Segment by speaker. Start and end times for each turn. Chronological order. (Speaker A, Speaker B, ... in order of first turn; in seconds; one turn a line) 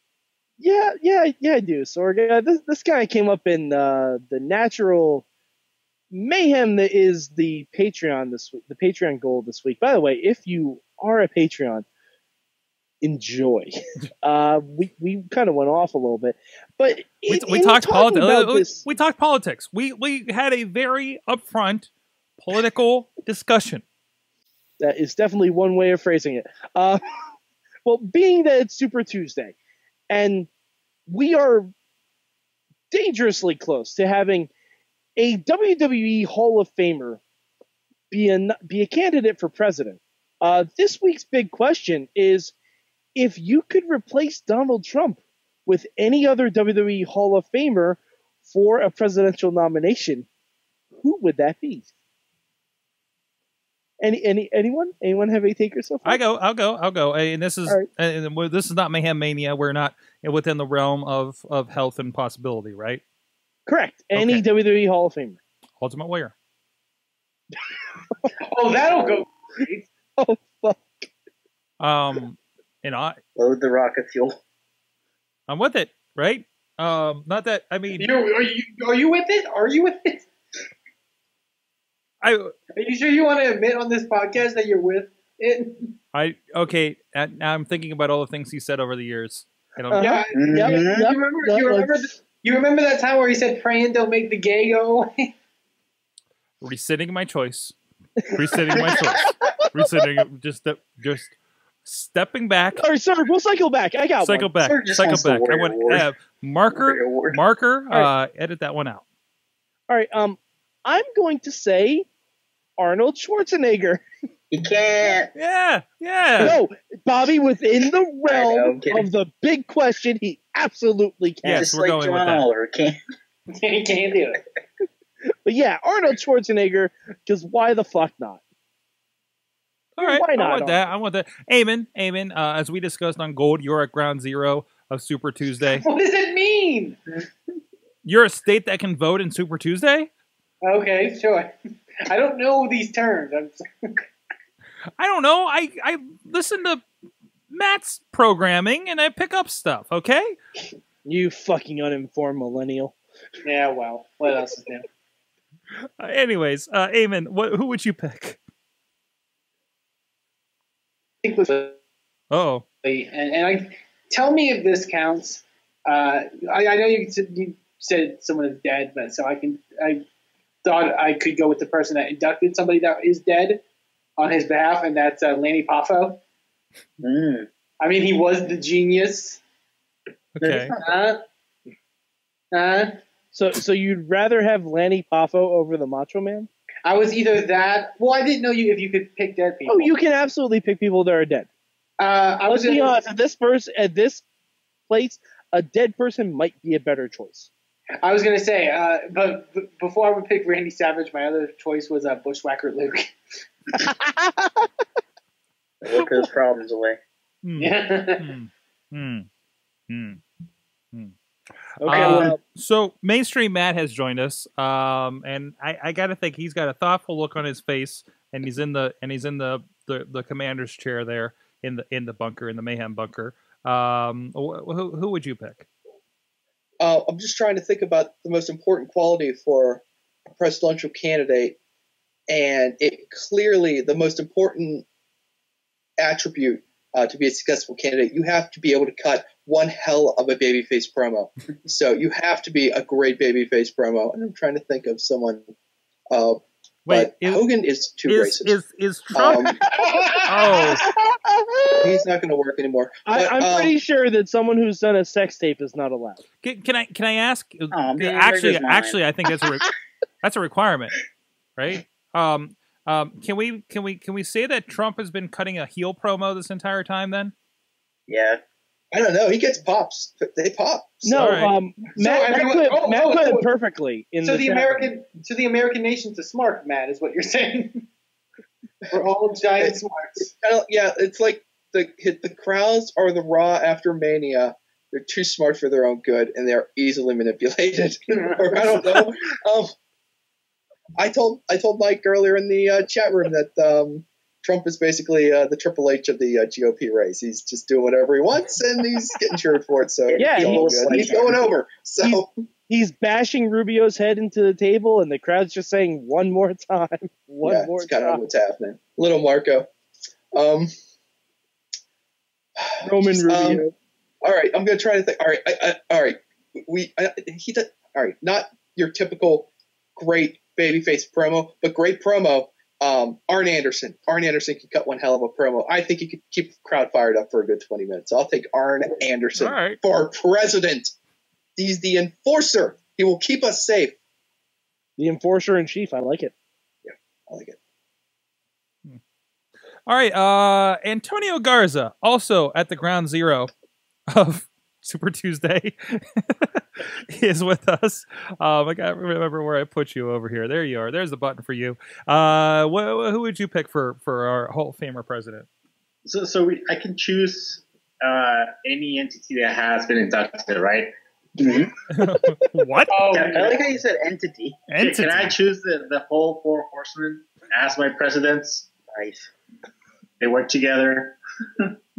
Speaker A: 0.6-5.2
Speaker A: 6.1-11.8
Speaker A: 13.0-18.9
Speaker B: 17.3-23.8
Speaker A: 24.8-27.0
Speaker A: 27.8-29.5
Speaker A: 30.1-30.5
Speaker A: 31.1-31.7
Speaker A: 32.9-34.5
Speaker A: 35.2-37.2
Speaker A: 38.1-42.5
Speaker A: 43.1-50.2
Speaker A: 51.0-51.9
Speaker A: 54.0-56.2
Speaker B: 56.0-63.0
Speaker A: 63.6-65.4
Speaker B: 64.1-64.4
Speaker B: 65.8-66.3
Speaker C: 68.5-69.9
Speaker A: 70.2-71.1
Speaker B: 71.8-73.2
Speaker D: 73.4-74.4
Speaker B: 75.5-78.0
Speaker C: 78.0-80.2
Speaker B: 82.2-82.5
Speaker C: 82.8-85.9
Speaker B: 86.1-90.1
Speaker A: 89.9-92.1
Speaker C: 90.0-95.3
Speaker D: 90.3-91.1
Speaker B: 96.6-97.8
Speaker B: 98.3-102.8
Speaker A: 98.7-99.3
Speaker A: 102.8-104.5
Speaker B: 104.2-109.0
Speaker D: 104.6-106.0
Speaker D: 106.7-107.4
Speaker A: 109.9-112.1
Speaker A: 112.8-114.0
Speaker D: 114.5-115.3
Speaker B: 115.3-116.5
Speaker A: 116.4-121.7
Speaker D: 118.3-119.0
Speaker B: 121.4-122.5
Speaker D: 121.6-123.0
Speaker C: 123.5-124.4
Speaker A: 125.4-128.4
Speaker B: 130.0-135.8
Speaker A: 130.0-130.8
Speaker C: 135.8-137.0
Speaker B: 138.0-140.1
Speaker C: 140.6-141.5
Speaker C: 142.1-144.0
Speaker B: 145.0-146.8
Speaker B: 147.5-150.3
Speaker A: 151.0-152.9
Speaker C: 153.4-154.8
Speaker B: 156.0-158.4
Speaker C: 161.2-161.8
Speaker B: 162.3-162.6
Speaker C: 162.8-170.0
Speaker C: 170.6-173.6
Speaker C: 174.2-176.2
Speaker D: 177.0-177.5
Speaker C: 177.8-179.4
Speaker B: 180.3-180.7
Speaker D: 180.4-180.9
Speaker C: 180.8-181.2
Speaker C: 182.5-183.0
Speaker A: 183.3-186.5
Speaker C: 186.8-189.9
Speaker A: 189.7-191.5
Speaker C: 192.0-192.9
Speaker A: 192.5-194.2
Speaker A: 194.9-197.5
Speaker C: 198.0-203.1
Speaker A: 203.8-204.7
Speaker D: 205.8-207.0
Speaker B: 207.4-209.3
Speaker C: 207.6-208.3
Speaker B: 209.9-210.2
Speaker A: 211.8-212.4
Speaker B: 211.8-225.7
Speaker D: 212.0-212.2
Speaker E: 226.8-231.6
Speaker E: 232.3-234.8
Speaker E: 236.0-245.4
Speaker E: 246.1-248.6
Speaker B: 246.8-247.4
Speaker B: 248.1-249.5
Speaker E: 249.1-249.6
Speaker C: 249.7-250.7
Speaker B: 250.2-250.9
Speaker E: 251.8-253.7
Speaker A: 253.1-256.2
Speaker B: 256.4-260.9
Speaker D: 257.7-259.0
Speaker B: 261.6-267.3
Speaker D: 268.1-268.4
Speaker E: 268.9-271.3
Speaker A: 271.0-274.9
Speaker B: 271.2-271.5
Speaker C: 272.0-273.4
Speaker C: 274.2-277.8
Speaker C: 278.9-280.3
Speaker E: 279.6-289.7
Speaker E: 291.0-302.3
Speaker D: 300.1-301.5
Speaker A: 300.2-301.3
Speaker A: 302.0-308.2
Speaker E: 307.4-309.7
Speaker E: 310.3-310.7
Speaker E: 312.6-313.6
Speaker A: 312.8-313.7
Speaker E: 314.2-330.9
Speaker B: 329.4-329.8
Speaker E: 331.6-333.9
Speaker A: 335.0-336.3
Speaker E: 336.8-337.6
Speaker B: 339.9-343.5
Speaker B: 344.1-355.5
Speaker F: 356.1-360.9
Speaker D: 361.4-361.7
Speaker B: 361.9-363.1
Speaker C: 362.9-363.6
Speaker D: 363.1-364.7
Speaker F: 363.2-363.6
Speaker B: 364.7-365.3
Speaker F: 364.8-368.7
Speaker D: 368.9-369.3
Speaker F: 370.2-371.6